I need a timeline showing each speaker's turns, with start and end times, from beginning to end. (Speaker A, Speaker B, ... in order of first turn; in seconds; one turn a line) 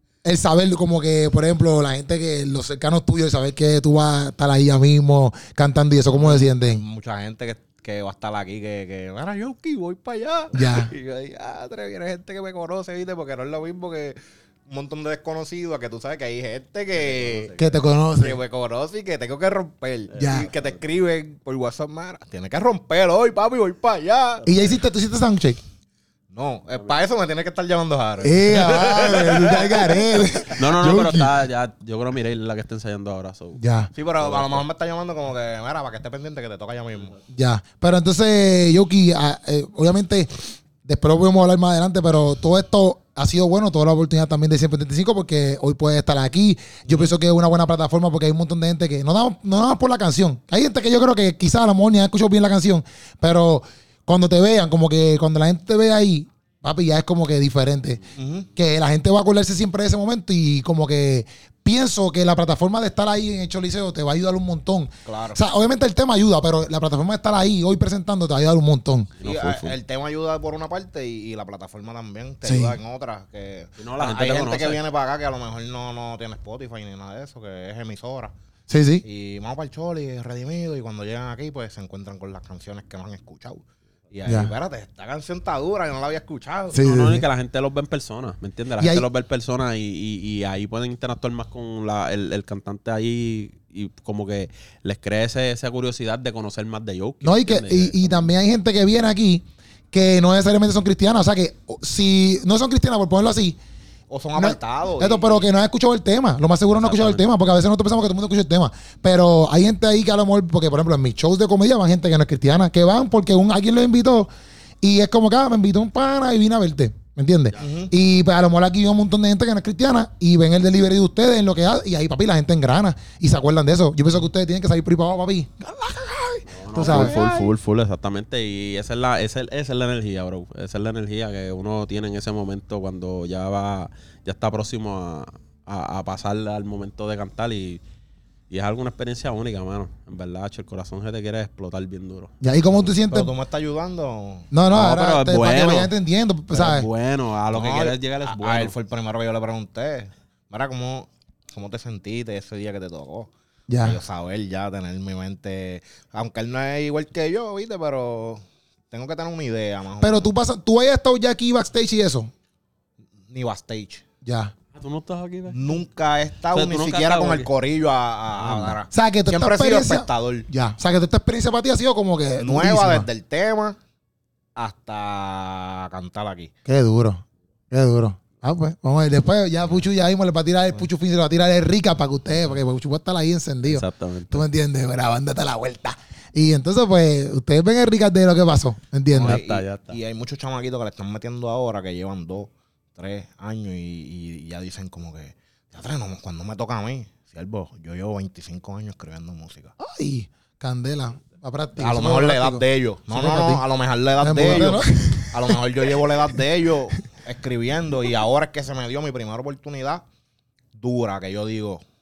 Speaker A: 0.2-6.8
Speaker B: 6.1-17.6
Speaker A: 10.5-10.9
Speaker C: 17.1-17.4
Speaker A: 17.5-18.4
Speaker B: 18.2-24.6
Speaker C: 20.2-20.6
Speaker A: 20.2-20.5
Speaker A: 24.4-25.6
Speaker B: 26.3-30.3
Speaker A: 28.2-31.3
Speaker C: 30.5-33.6
Speaker A: 33.6-33.9
Speaker B: 33.9-37.1
Speaker C: 34.2-34.6
Speaker A: 37.3-40.3
Speaker A: 40.8-58.0
Speaker B: 58.1-58.5
Speaker A: 58.5-69.1
Speaker B: 65.0-65.4
Speaker C: 69.2-69.8
Speaker B: 69.2-78.3
Speaker A: 72.4-72.8
Speaker C: 73.8-74.8
Speaker A: 78.7-79.0
Speaker B: 79.0-86.8
Speaker A: 84.2-84.5
Speaker A: 86.7-87.2
Speaker C: 86.7-98.1
Speaker A: 88.8-89.0
Speaker A: 97.2-103.6
Speaker B: 104.1-105.5
Speaker A: 104.3-114.3
Speaker C: 106.7-107.2
Speaker A: 114.8-127.2
Speaker B: 117.6-117.9
Speaker C: 126.5-137.8
Speaker B: 126.8-127.5
Speaker C: 138.5-142.3
Speaker A: 142.4-143.3
Speaker B: 143.1-144.5
Speaker A: 144.5-146.9
Speaker C: 144.7-145.9
Speaker C: 146.5-148.7
Speaker B: 147.5-160.3
Speaker A: 153.7-154.0
Speaker A: 160.0-162.3
Speaker B: 163.3-164.0
Speaker A: 164.2-164.5
Speaker C: 164.7-165.6
Speaker B: 165.5-170.5
Speaker C: 166.5-167.5
Speaker C: 168.4-168.8
Speaker A: 168.9-173.1
Speaker B: 172.4-173.8
Speaker B: 174.5-176.5
Speaker A: 176.6-189.4
Speaker C: 183.6-184.4
Speaker B: 189.1-199.7
Speaker C: 189.2-190.0
Speaker A: 199.8-203.6
Speaker B: 201.8-210.0
Speaker A: 204.2-205.6
Speaker B: 210.8-211.8